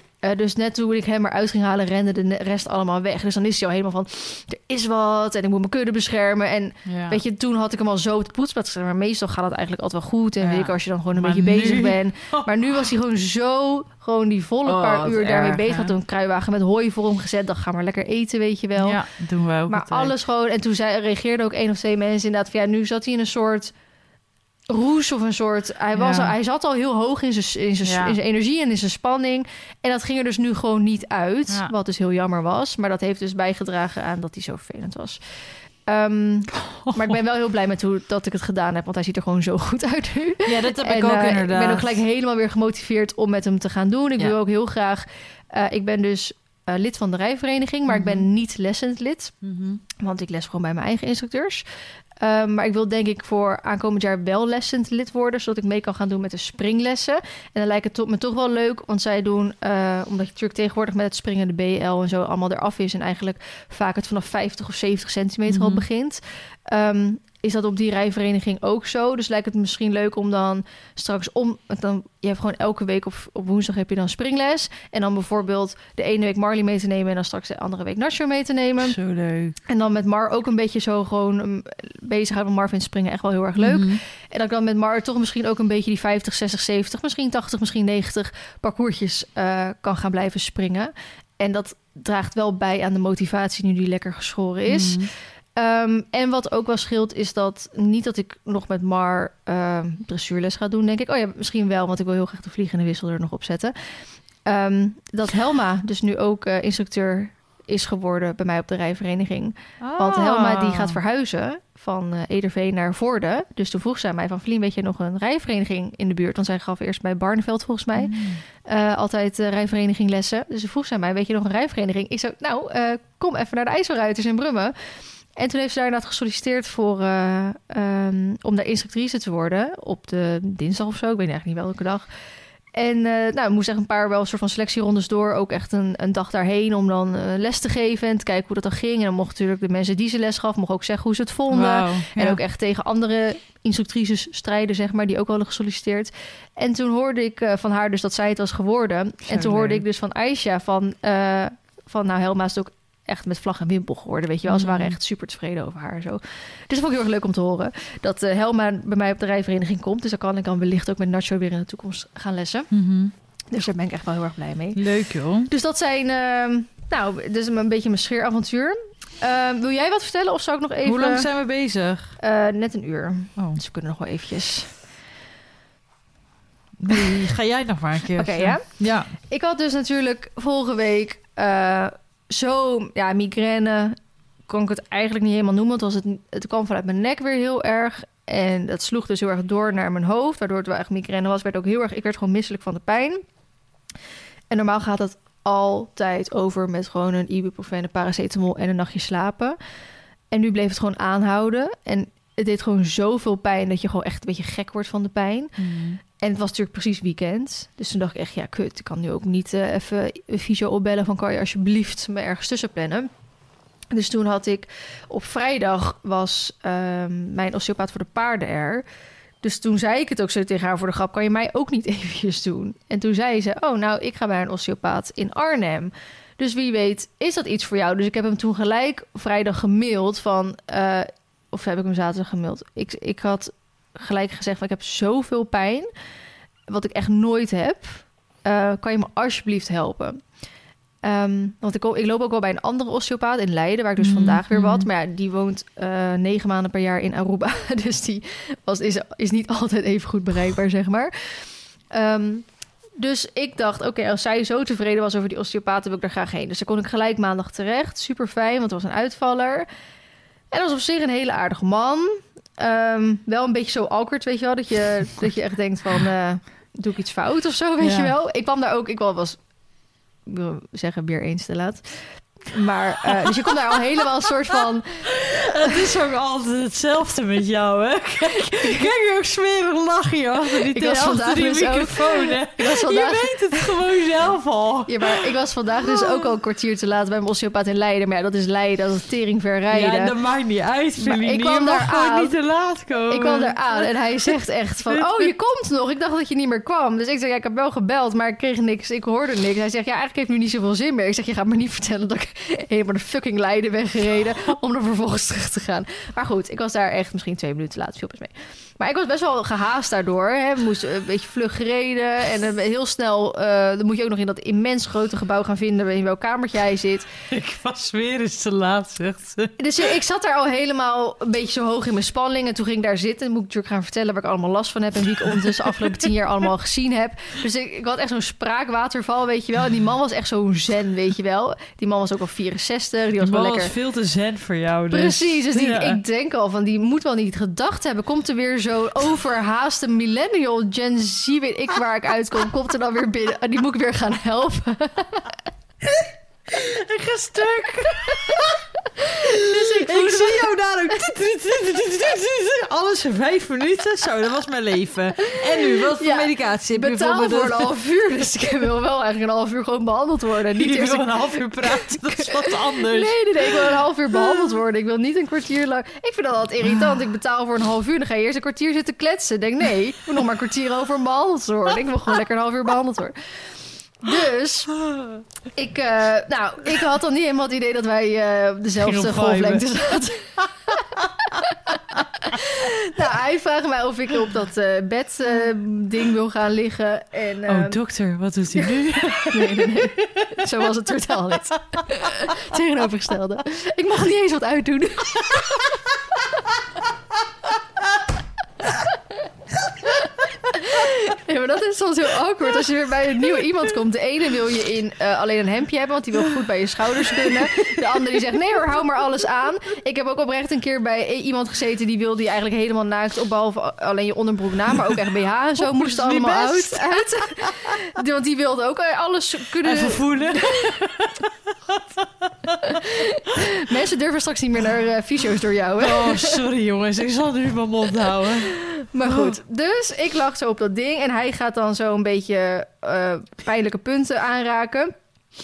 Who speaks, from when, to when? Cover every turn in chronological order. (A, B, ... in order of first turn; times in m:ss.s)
0:00.2-0:19.0 A
0:06.8-0:07.2 B
0:10.4-0:12.8 B
0:14.6-0:15.9 B
0:18.8-0:20.1 B
0:19.7-0:23.7 A
0:24.7-0:49.3 A
0:25.9-0:26.3 B
0:27.8-0:28.2 B
0:36.7-0:37.2 B
0:40.4-0:42.0 B
0:47.9-0:48.3 B
0:49.4-0:49.8 B
0:50.0-0:51.6 A
0:52.2-1:19.0 A
1:05.5-1:05.8 B
1:18.8-1:19.6 B
1:19.6-2:12.1 A
1:23.6-1:24.0 B
1:34.7-1:35.1 B
1:49.8-1:51.0 B
1:58.0-1:58.4 B
2:12.7-2:42.7 A
2:21.5-2:22.4 B
2:29.3-2:29.8 B
2:34.5-2:35.0 B
2:42.7-2:43.1 B
2:43.5-2:51.3 A
2:44.8-2:45.5 B
2:50.8-2:52.2 B
2:52.2-2:54.8 A
2:56.8-2:59.1 B
2:58.2-3:13.2 A
3:14.5-3:19.6 A
3:20.3-3:25.6 A
3:25.6-3:26.0 B
3:26.2-3:33.1 A
3:33.9-3:38.8 A
3:39.4-3:55.9 A
3:56.7-4:00.2 A
4:01.0-4:12.4 A
4:04.0-4:04.9 B
4:13.0-4:19.7 A
4:20.5-4:29.4 A
4:27.8-4:28.1 B
4:30.2-4:35.4 A
4:35.0-4:45.3 B
4:40.7-4:43.8 A
4:44.9-4:50.1 A
4:45.8-4:46.3 B
4:49.7-4:54.3 B
4:51.0-4:52.3 A
4:53.1-5:17.1 A
4:54.9-4:55.3 B
5:17.3-5:19.6 B
5:19.6-5:33.7 A
5:25.3-5:26.1 B
5:33.2-5:36.0 B
5:34.9-5:45.3 A
5:45.8-5:48.6 B
5:48.1-5:48.6 A
5:49.1-5:50.5 A
5:49.1-5:57.7 B
5:55.3-6:13.4 A
6:00.5-6:03.7 B
6:14.0-6:14.8 A
6:14.8-6:15.2 B
6:15.5-6:27.8 A
6:18.8-6:19.7 B
6:27.4-6:29.8 B
6:29.2-6:35.7 A
6:39.8-7:01.0 A
6:47.1-6:48.0 B
6:55.6-6:57.8 B
6:59.6-7:02.8 B
7:02.6-7:06.4 A
7:05.8-7:09.4 B
7:08.5-7:14.9 A